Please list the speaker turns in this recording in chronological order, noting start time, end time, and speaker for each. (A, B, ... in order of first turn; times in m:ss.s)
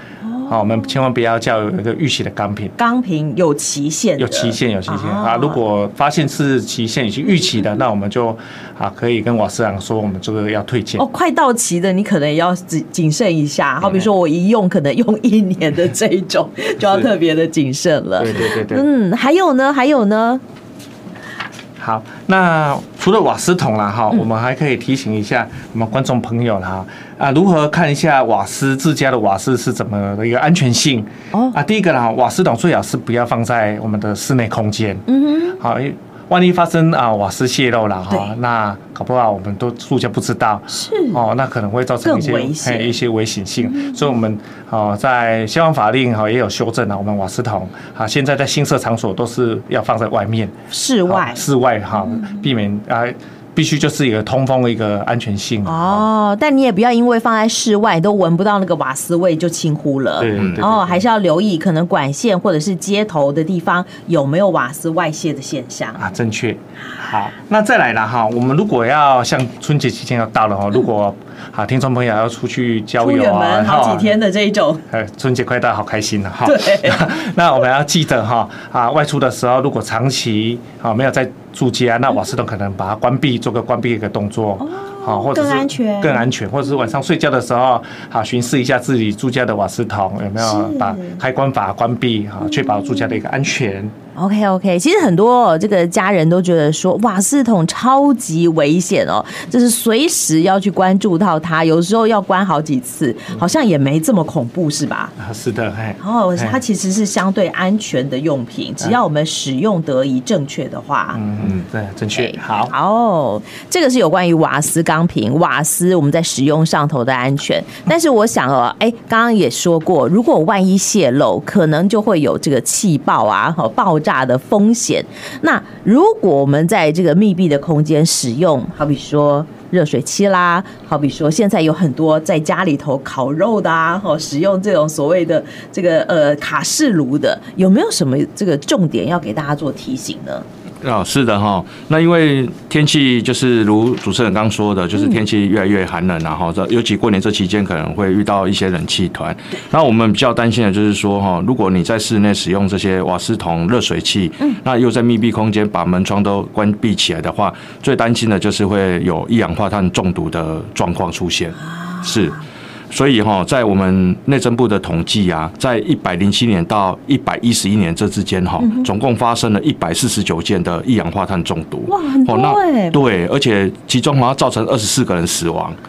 0:00.2-0:00.9 A
0:00.5-0:02.7 B
0:02.8-0:05.6 A
0:04.2-0:11.0 B
0:11.0-0:20.4 A
0:18.2-0:18.9 B
0:21.8-0:35.1 B
0:35.1-0:35.6 A
0:35.6-0:50.5 B
0:40.7-0:41.2 A
0:42.0-0:43.0 A
0:43.6-0:44.1 A
0:50.7-0:51.4 A
0:51.1-0:56.1 B
0:52.0-0:52.5 A
0:55.6-1:06.0 A
1:00.2-1:01.0 B
1:06.0-1:14.2 B
1:13.0-1:14.8 A
1:14.9-1:33.9 B
1:16.4-1:17.1 A
1:24.6-1:26.3 A
1:30.4-1:31.2 A
1:32.5-1:33.2 A
1:34.2-1:45.1 A
1:45.2-1:46.6 B
1:46.0-1:51.2 A
1:51.2-1:52.7 B
1:52.1-2:20.4 A
2:20.8-2:42.4 C
2:25.0-2:25.2 A
2:42.9-2:55.8 C
2:48.6-2:48.9 A
2:51.9-2:53.0 A